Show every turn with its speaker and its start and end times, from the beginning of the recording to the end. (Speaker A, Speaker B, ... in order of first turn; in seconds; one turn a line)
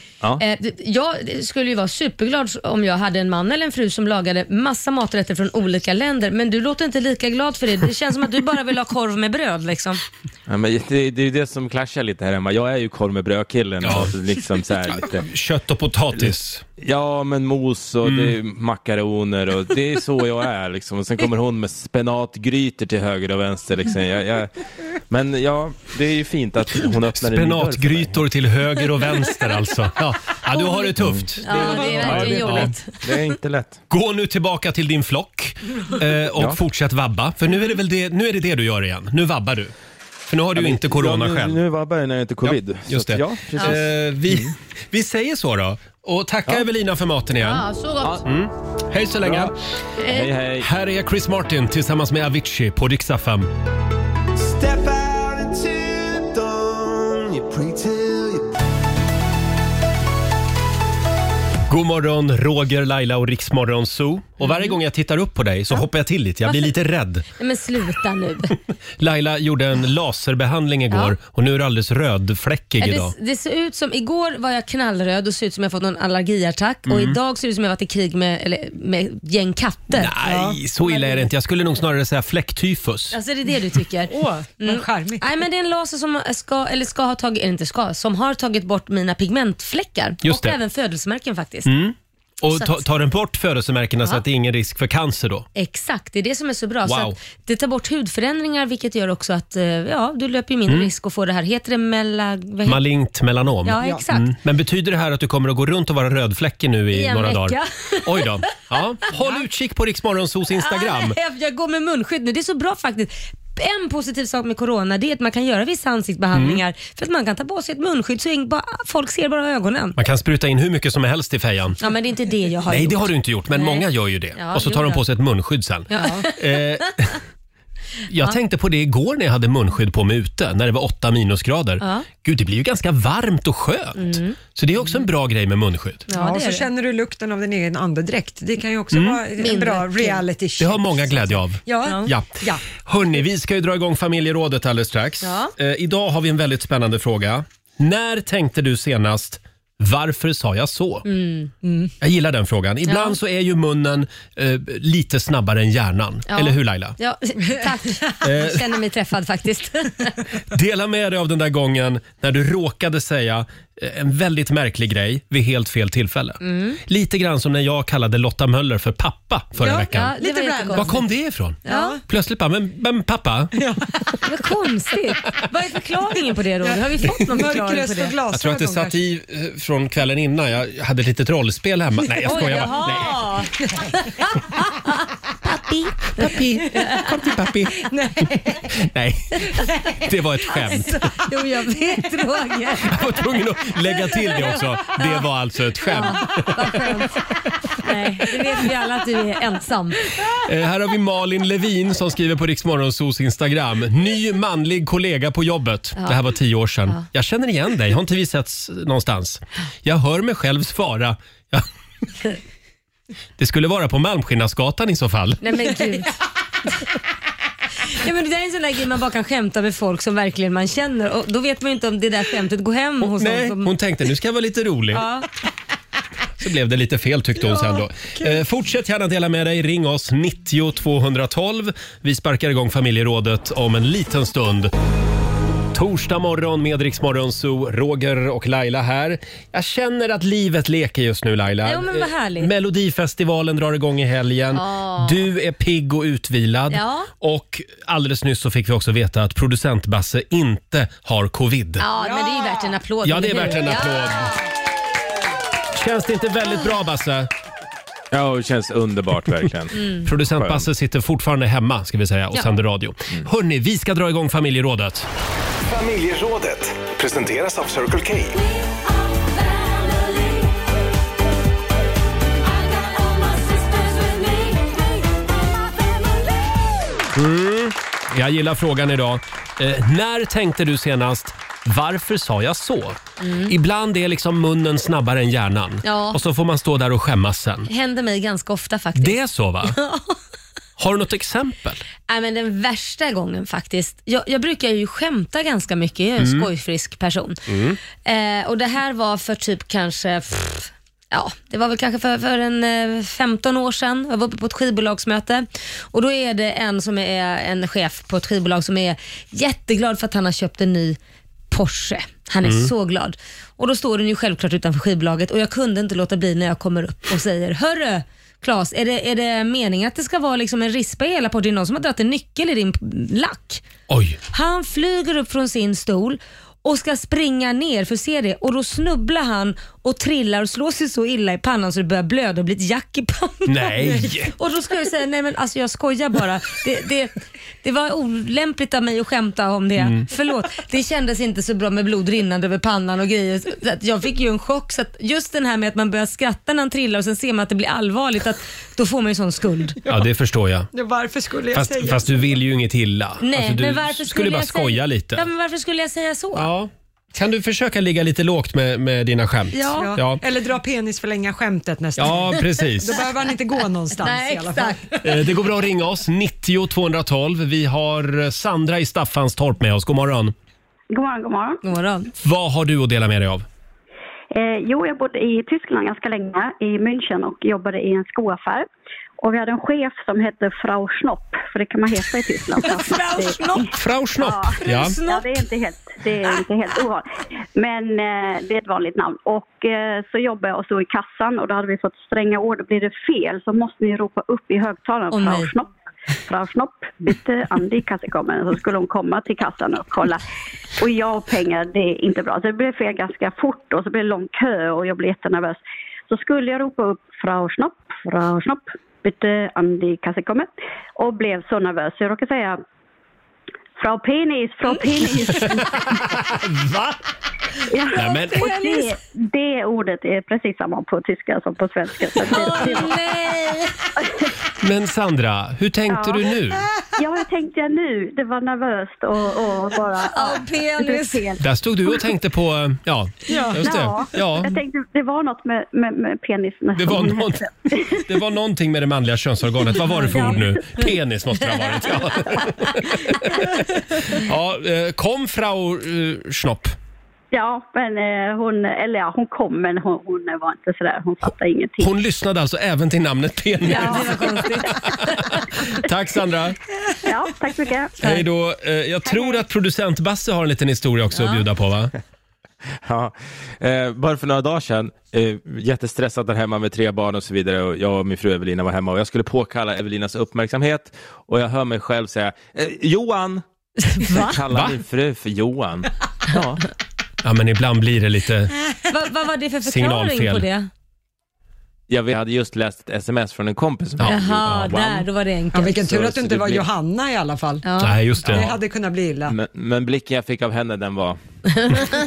Speaker A: 0.4-10.0
Speaker B: 10.5-15.3
Speaker C: 13.8-14.1
Speaker C: 15.1-16.7
Speaker B: 16.2-28.2
Speaker C: 18.0-18.4
Speaker C: 27.1-32.8
Speaker A: 30.5-30.9
Speaker A: 31.4-33.0
Speaker D: 31.5-32.3
Speaker B: 32.0-33.8
Speaker C: 33.9-39.7
Speaker C: 40.3-41.6
Speaker B: 40.6-44.5
Speaker C: 42.4-47.7
Speaker A: 47.4-48.2
Speaker C: 48.2-49.5
Speaker B: 49.2-49.5
Speaker A: 50.0-50.3
Speaker B: 50.0-50.7
Speaker C: 50.6-53.5
Speaker E: 54.4-58.5
Speaker C: 61.7-67.2
Speaker A: 64.4-64.7
Speaker A: 67.4-68.6
Speaker C: 69.0-73.1
Speaker A: 72.8-80.2
Speaker C: 76.9-77.2
Speaker C: 79.9-83.2
Speaker D: 80.2-80.6
Speaker A: 80.8-81.2
Speaker A: 83.1-91.7
Speaker D: 84.1-85.3
Speaker C: 90.2-90.6
Speaker C: 91.7-95.5
Speaker A: 92.5-92.8
Speaker A: 95.5-102.8
Speaker C: 96.8-97.2
Speaker C: 102.7-111.2
Speaker A: 103.6-104.3
Speaker A: 106.9-108.3
Speaker A: 110.6-120.0
Speaker C: 116.3-116.6
Speaker C: 120.0-121.8
Speaker A: 121.8-125.0
Speaker C: 122.7-127.2
Speaker A: 125.9-126.3
Speaker C: 128.1-136.1
Speaker A: 131.8-132.1
Speaker A: 134.0-134.4
Speaker A: 136.1-136.7
Speaker D: 136.1-142.6
Speaker C: 138.9-139.2
Speaker A: 139.4-140.2
Speaker C: 140.6-151.1
Speaker A: 145.2-145.5
Speaker A: 151.1-151.5
Speaker D: 151.6-151.9
Speaker C: 152.0-157.0
Speaker A: 152.9-153.2
Speaker A: 156.3-160.2
Speaker C: 158.2-158.7
Speaker C: 160.5-170.2
Speaker A: 166.4-166.8
Speaker D: 169.6-171.0
Speaker A: 169.9-170.9
Speaker C: 170.7-173.5
Speaker A: 171.7-172.0
Speaker D: 171.7-172.0
Speaker D: 173.6-173.9
Speaker A: 174.2-178.2
Speaker D: 176.6-179.0
Speaker C: 178.3-183.2
Speaker A: 182.2-184.2
Speaker D: 182.3-182.6
Speaker A: 185.4-187.0
Speaker C: 186.2-187.9
Speaker D: 187.9-188.7
Speaker C: 188.7-191.1
Speaker A: 190.6-193.0
Speaker C: 192.8-196.9
Speaker A: 194.2-194.6
Speaker A: 195.9-197.2
Speaker A: 197.8-200.0
Speaker C: 200.2-211.7
Speaker C: 213.4-215.5
Speaker A: 215.4-216.1
Speaker A: 217.9-223.7
Speaker C: 223.0-225.1
Speaker A: 224.9-225.3
Speaker C: 226.4-234.7
Speaker D: 227.5-228.3
Speaker C: 235.7-251.8
Speaker A: 241.6-242.5
Speaker A: 244.5-245.3
Speaker A: 246.7-247.1
Speaker A: 251.8-254.4
Speaker D: 252.0-252.8
Speaker C: 253.0-254.4
Speaker C: 255.7-257.3
Speaker B: 258.1-259.8
Speaker C: 260.0-265.1
Speaker B: 260.3-260.6
Speaker F: 265.7-268.4
Speaker A: 269.6-270.1
Speaker A: 273.2-274.6
Speaker C: 277.1-287.7
Speaker A: 283.2-283.5
Speaker A: 285.8-286.2
Speaker A: 287.7-290.2
Speaker C: 289.0-289.8
Speaker C: 290.8-291.8
Speaker A: 292.1-297.4
Speaker C: 296.2-296.5
Speaker C: 297.5-297.8
Speaker A: 298.0-311.0
Speaker A: 311.5-323.6
Speaker C: 312.4-312.7
Speaker C: 323.9-324.2
Speaker A: 324.3-333.8
Speaker C: 333.5-334.3
Speaker A: 334.3-349.8
Speaker C: 339.8-340.1
Speaker C: 349.9-350.7
Speaker D: 350.7-352.1
Speaker C: 351.5-355.3
Speaker A: 353.2-356.5
Speaker C: 356.4-360.2
Speaker A: 359.5-359.9
Speaker D: 359.8-365.0
Speaker C: 362.0-363.0
Speaker A: 364.0-364.9
Speaker C: 365.0-370.3
Speaker G: 370.9-371.6
Speaker A: 371.6-372.1
Speaker C: 372.2-373.4
Speaker G: 374.3-378.7
Speaker G: 379.2-395.7
Speaker A: 382.6-383.7
Speaker C: 383.7-385.0
Speaker A: 384.5-385.4
Speaker A: 395.1-395.5
Speaker G: 396.3-400.2
Speaker G: 400.8-412.6
Speaker G: 413.8-416.0
Speaker C: 415.3-417.0
Speaker G: 417.7-423.0
Speaker C: 417.9-418.6
Speaker A: 418.0-419.0
Speaker A: 422.2-423.9
Speaker G: 424.0-424.3
Speaker C: 424.6-426.6
Speaker G: 425.9-426.3
Speaker G: 427.0-431.4
Speaker A: 430.1-431.4
Speaker C: 431.4-434.6
Speaker D: 433.3-433.7
Speaker G: 433.6-438.0
Speaker C: 436.8-446.8
Speaker A: 440.0-440.4
Speaker G: 440.1-440.5
Speaker G: 447.3-452.0
Speaker C: 451.8-456.6
Speaker A: 453.6-455.2
Speaker G: 457.1-458.0
Speaker C: 458.0-461.9
Speaker G: 459.1-459.4
Speaker A: 461.1-461.4
Speaker B: 462.9-473.4
Speaker A: 473.8-474.4
Speaker B: 474.1-476.6
Speaker C: 474.5-474.8
Speaker C: 477.2-478.5
Speaker A: 478.9-480.7
Speaker C: 479.6-480.5
Speaker B: 481.9-485.0
Speaker C: 484.0-484.8
Speaker A: 484.0-485.8
Speaker D: 485.5-487.6
Speaker B: 485.9-486.7
Speaker A: 487.6-488.0
Speaker C: 487.8-488.6
Speaker D: 488.3-489.3
Speaker B: 489.3-491.2